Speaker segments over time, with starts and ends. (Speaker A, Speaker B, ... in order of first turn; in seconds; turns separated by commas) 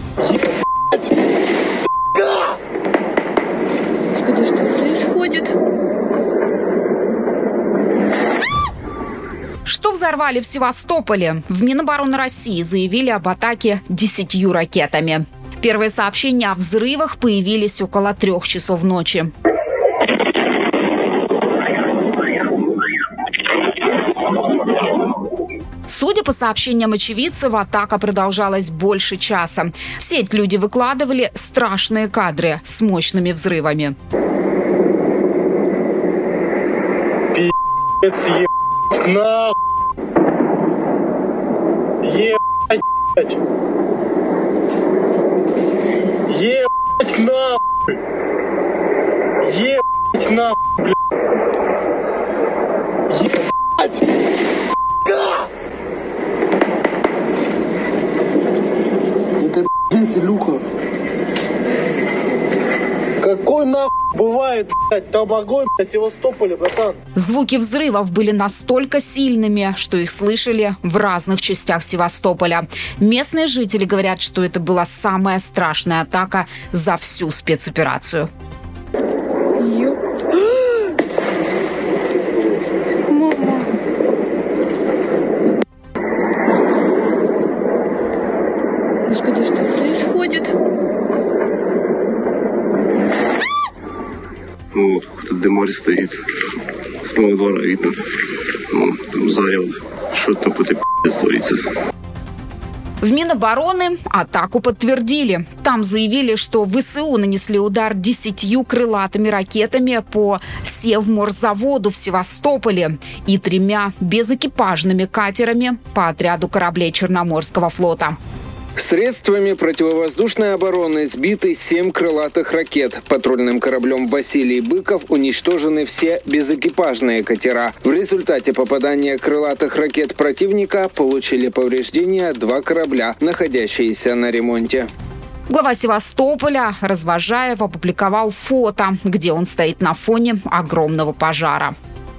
Speaker A: 4.2-5.5, Speaker B: 9.6-19.3, Speaker B: 25.9-34.0, Speaker C: 37.3-39.5, Speaker C: 42.0-43.4, Speaker C: 46.3-47.6, Speaker C: 49.4-50.9, Speaker C: 59.4-60.6, Speaker C: 63.2-67.0, Speaker B: 67.2-78.3, Speaker A: 79.7-79.9, Speaker A: 89.1-90.5, Speaker D: 94.8-96.2, Speaker D: 97.1-97.9, Speaker D: 98.7-101.5, Speaker B: 103.0-118.2, Speaker E: 118.8-134.9, Speaker B: 135.5-141.8